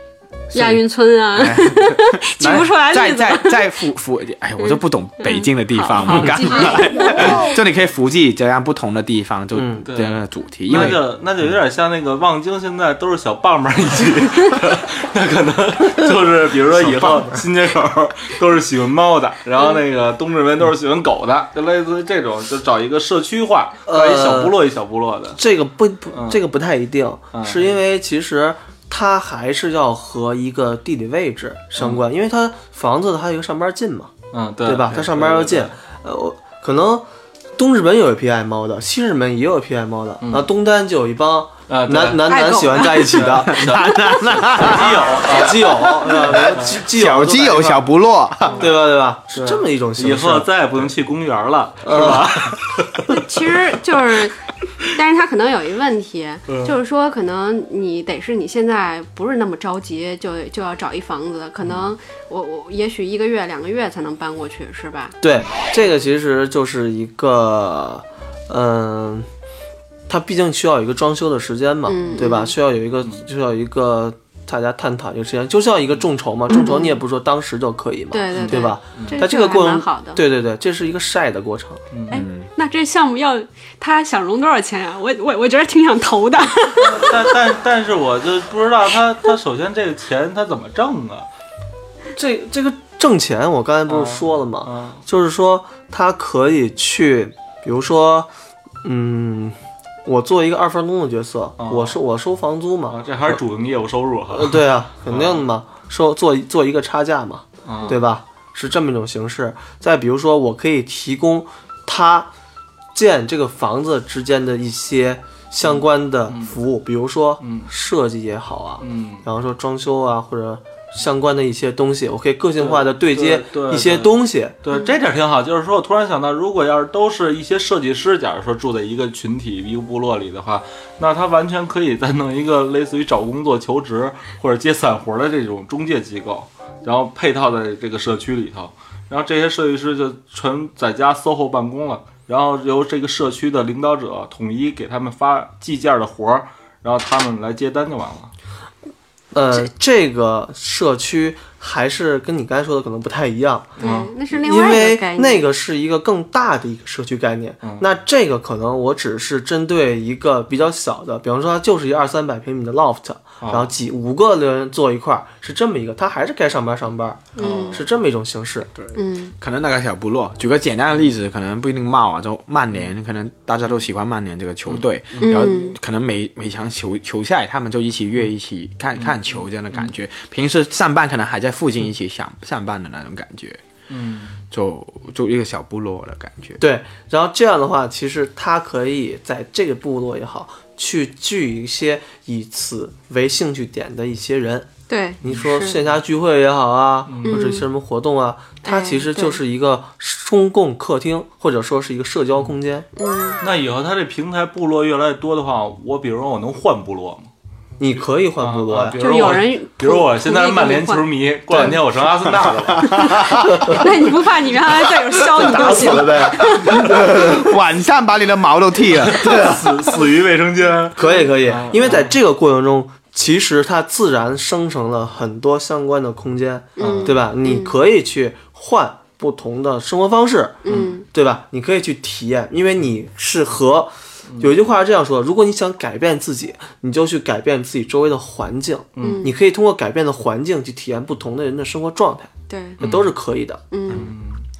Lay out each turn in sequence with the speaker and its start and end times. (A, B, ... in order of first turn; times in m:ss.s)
0:00.5-0:00.8 A
0:00.5-0:03.8 B
0:01.4-0:11.0 A
0:04.6-0:07.5 B
0:09.5-0:09.9 C
0:09.9-0:10.2 D
0:10.7-0:25.4 D
0:10.7-0:11.0 C
0:16.7-0:17.4 C
0:23.9-0:24.6 C
0:25.4-0:34.1 C
0:26.1-0:26.4 D
0:27.3-0:27.8 D
0:31.8-0:32.0 D
0:34.3-0:35.8 D
0:34.6-0:37.1 C
0:37.6-0:43.8 C
0:40.2-0:40.5 D
0:41.7-0:42.3 D
0:42.3-0:43.3 B
0:42.8-0:46.8 D
0:43.5-0:45.1 A
0:44.7-0:47.8 C
0:46.1-0:46.3 A
0:46.9-0:48.7 A
0:48.6-0:50.9 C
0:49.3-0:53.2 D
0:51.8-0:52.6 C
0:53.1-1:05.2 B
0:56.5-0:56.8 D
1:05.2-1:09.3 C
1:10.1-1:21.8 C
1:11.9-1:12.5 B
1:16.5-1:16.9 B
1:18.1-1:20.2 B
1:18.3-1:19.2 D
1:21.9-1:22.2 D
1:22.1-1:27.3 B
1:22.1-1:22.5 A
1:26.8-1:31.3 D
1:32.1-1:38.3 C
1:33.9-1:35.0 D
1:38.8-1:43.4 C
1:41.6-1:42.0 D
1:42.9-1:45.5 D
1:44.3-1:52.3 C
1:47.7-1:48.0 D
1:52.9-2:04.6 C
1:55.6-1:56.6 D
1:57.4-1:57.7 D
1:58.8-1:59.2 D
2:02.6-2:28.3 D
2:29.3-2:33.8 C
2:33.8-2:34.1 D
2:33.8-2:35.5 B
2:34.3-2:48.7 C
2:43.4-2:43.7 D
2:47.4-2:47.8 B
2:47.4-2:47.9 D
2:48.8-3:03.6 A
2:49.0-2:49.3 B
2:54.7-2:55.5 D
2:55.2-2:55.8 B
2:59.0-2:59.9 D
3:03.9-3:04.3 D
3:04.5-3:06.6 A
3:06.6-3:14.7 C
3:14.9-3:15.8 B
3:15.2-3:22.9 C
3:15.3-3:16.0 D
3:17.1-3:17.5 D
3:17.2-3:17.6 B
3:18.6-3:19.4 B
3:23.0-3:23.4 B
3:23.4-3:27.3 D
3:27.8-3:29.4 C
3:28.4-3:33.3 D
3:29.0-3:31.1 B
3:31.5-3:31.8 C
3:32.3-3:33.9 C
3:32.8-3:33.6 A
3:33.6-3:37.3 B
3:35.4-3:37.5 C
3:36.4-3:39.6 A
3:38.9-3:42.2 D
3:39.2-3:40.0 C
3:41.0-4:03.6 C
3:46.8-3:47.2 D
3:46.8-3:47.7 B
3:50.6-3:51.0 B
3:50.6-3:50.9 D
3:59.0-3:59.2 D
3:59.0-3:59.3 B
4:02.5-4:02.8 B
4:02.8-4:03.1 D
4:03.7-4:04.1 B
4:03.9-4:04.4 D